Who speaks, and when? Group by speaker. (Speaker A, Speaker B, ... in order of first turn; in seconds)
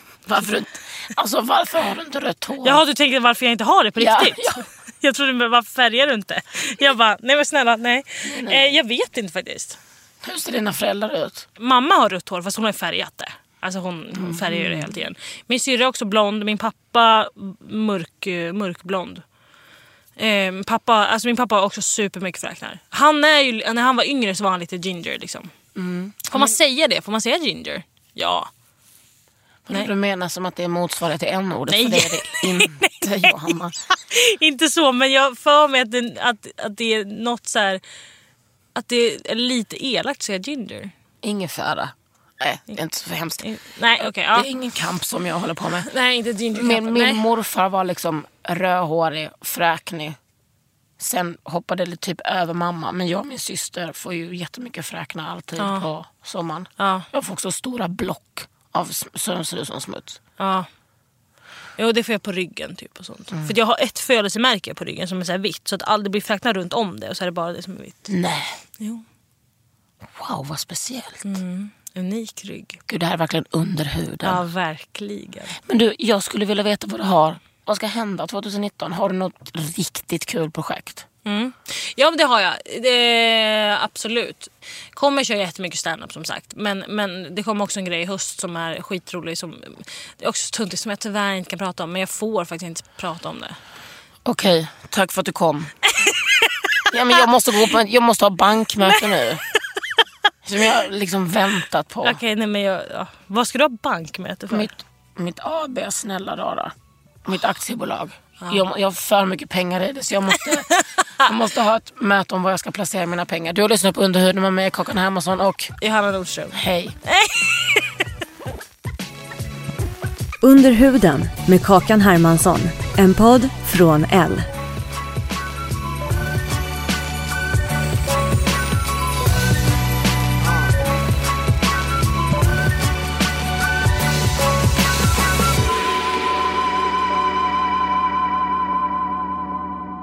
Speaker A: 0.3-2.8, 4.0-4.6, 8.2-8.8, 10.2-11.5, 14.2-15.0, 25.8-26.6, 29.7-33.8, 41.2-43.5, 44.3-45.9, 46.5-50.2, 51.0-60.2, 68.1-68.6, 70.0-71.4, 72.9-74.4, 75.7-81.1, 94.2-95.7, 96.9-99.4, 100.4-102.2, 104.5-115.7, 116.5-117.0
Speaker B: 2.6-9.8, 11.6-19.2, 20.2-25.5, 26.3-28.5, 31.7-37.8, 38.8-40.9, 43.4-44.5, 45.8-47.2, 55.6-55.9, 56.8-57.1, 60.4-60.7, 61.8-68.1, 68.8-69.0, 71.2-72.8, 74.2-75.6, 81.2-93.6, 96.0-96.8, 98.9-99.4, 102.0-104.7, 110.8-111.3, 115.8-117.9
Speaker C: 120.4-124.5